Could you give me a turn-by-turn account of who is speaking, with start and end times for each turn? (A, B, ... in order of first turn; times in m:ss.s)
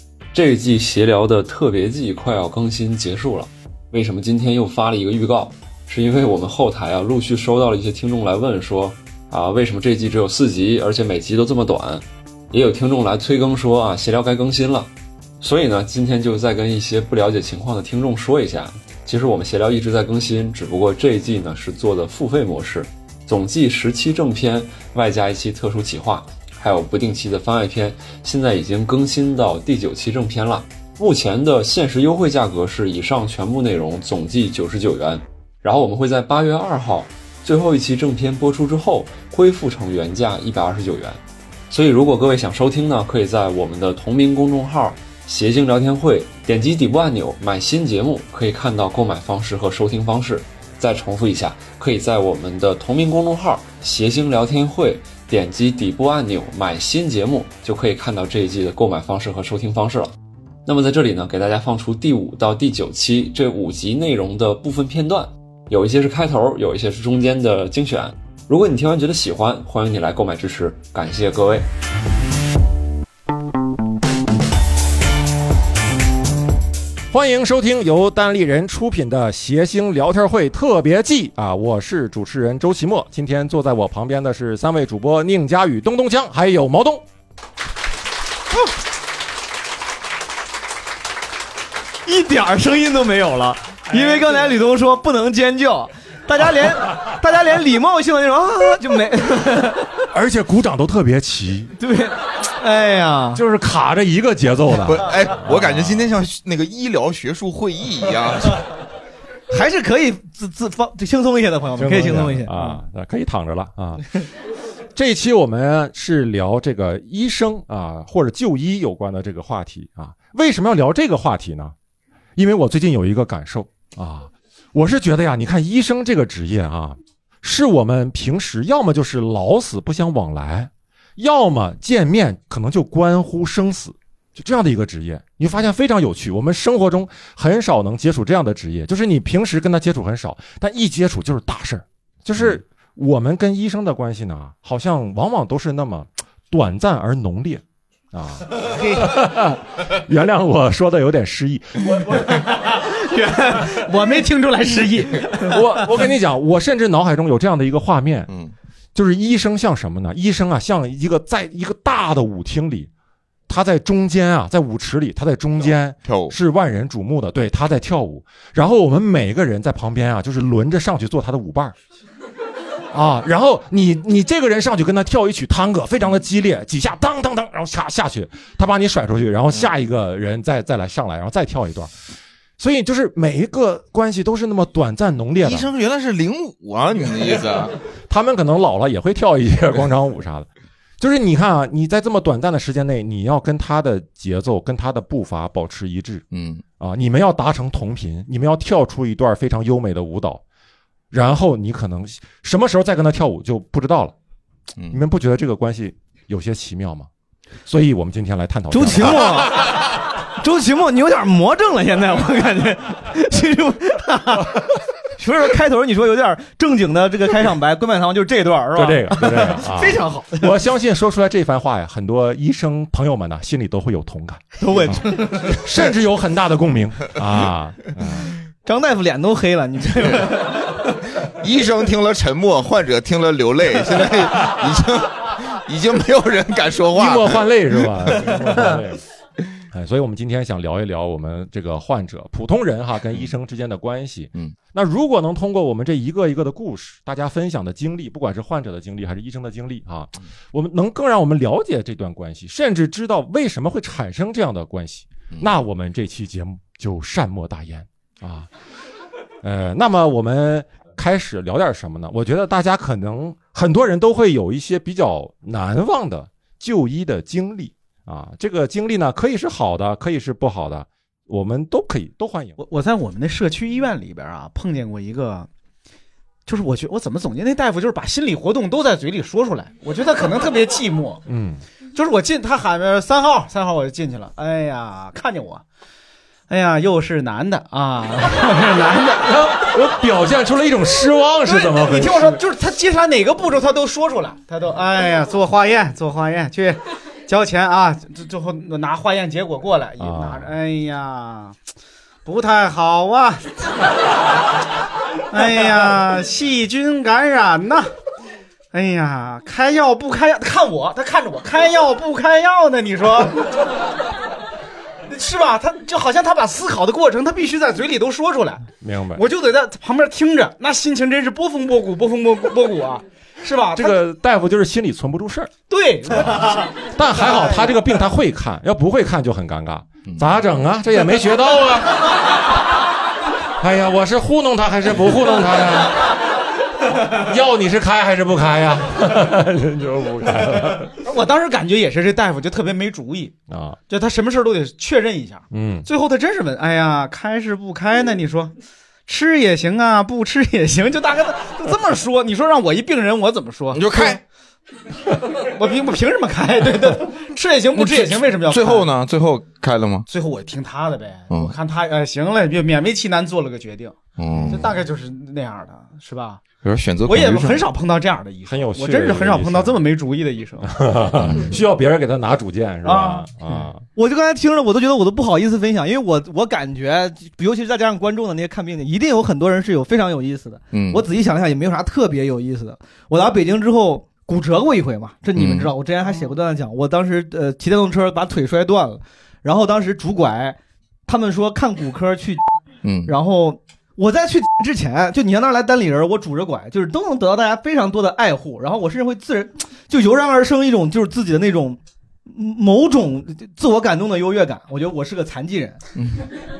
0:00.3-1:00.1 A
1:00.6-1:11.7 A
1:17.1-1:27.0 B
1:32.1-1:39.9 C
1:40.1-1:41.7 B
1:41.8-1:43.4 C
1:43.4-1:46.1 B
1:44.9-1:48.6 D
1:49.5-1:52.5 C
1:51.8-1:54.1 B
1:55.0-2:01.7 B
2:02.4-2:31.9 B
2:28.7-2:29.1 E
2:32.0-2:35.6 E
2:35.4-2:38.3 B
2:38.3-2:38.5 D
2:39.0-2:42.9 B
2:43.5-2:51.8 B
2:46.0-2:46.4 D
2:52.9-3:01.9 B
3:02.6-3:05.7 B
3:05.4-3:07.7 D
3:08.1-3:10.5 B
3:11.0-3:16.2 B
3:16.3-3:16.6 D
3:16.8-3:20.4 B
3:21.1-3:24.2 B
3:24.9-3:27.1 B
3:27.7-3:29.4 B
3:28.7-3:40.6 C
3:38.8-3:48.3 B
3:44.6-3:45.6 C
3:48.7-3:51.0 C
3:51.2-3:58.7 D
3:57.0-3:59.0 B
3:59.7-4:18.5 B
4:19.4-4:32.6 B
4:32.6-4:35.5 E
4:36.5-4:41.2 E
4:41.3-4:41.6 B
4:42.0-4:45.6 E
4:46.5-4:49.3 E
4:49.2-4:52.4 B
4:51.5-5:01.6 E
5:00.0-5:00.5 B
5:02.2-5:03.4 E
5:05.3-5:07.9 E
5:08.7-5:13.6 E
5:15.1-5:18.6 E
5:18.8-5:19.3 B
5:19.2-5:24.0 E
5:23.8-5:25.5 B
5:25.7-5:26.7 E
5:26.1-5:32.1 B
5:27.4-5:27.6 E
5:30.1-5:30.3 D
5:33.6-5:36.2 B
5:37.1-5:40.9 B
5:40.9-5:43.4 E
5:43.5-5:43.8 B
5:43.9-5:48.6 E
5:45.5-5:45.9 B
5:49.1-5:54.2 E
5:53.7-5:54.2 D
5:55.4-5:58.9 E
5:57.7-6:00.1 D
6:00.1-6:06.4 E
6:01.3-6:01.5 D
6:04.2-6:04.8 D
6:06.6-6:07.6 D
6:07.1-6:10.7 E
6:08.5-6:09.8 B
6:10.7-6:13.8 B
6:11.2-6:11.5 D
6:12.8-6:13.6 E
6:14.0-6:32.4 C
6:20.7-6:21.0 D
6:25.4-6:25.7 D
6:32.8-6:33.1 D
6:33.1-6:45.8 C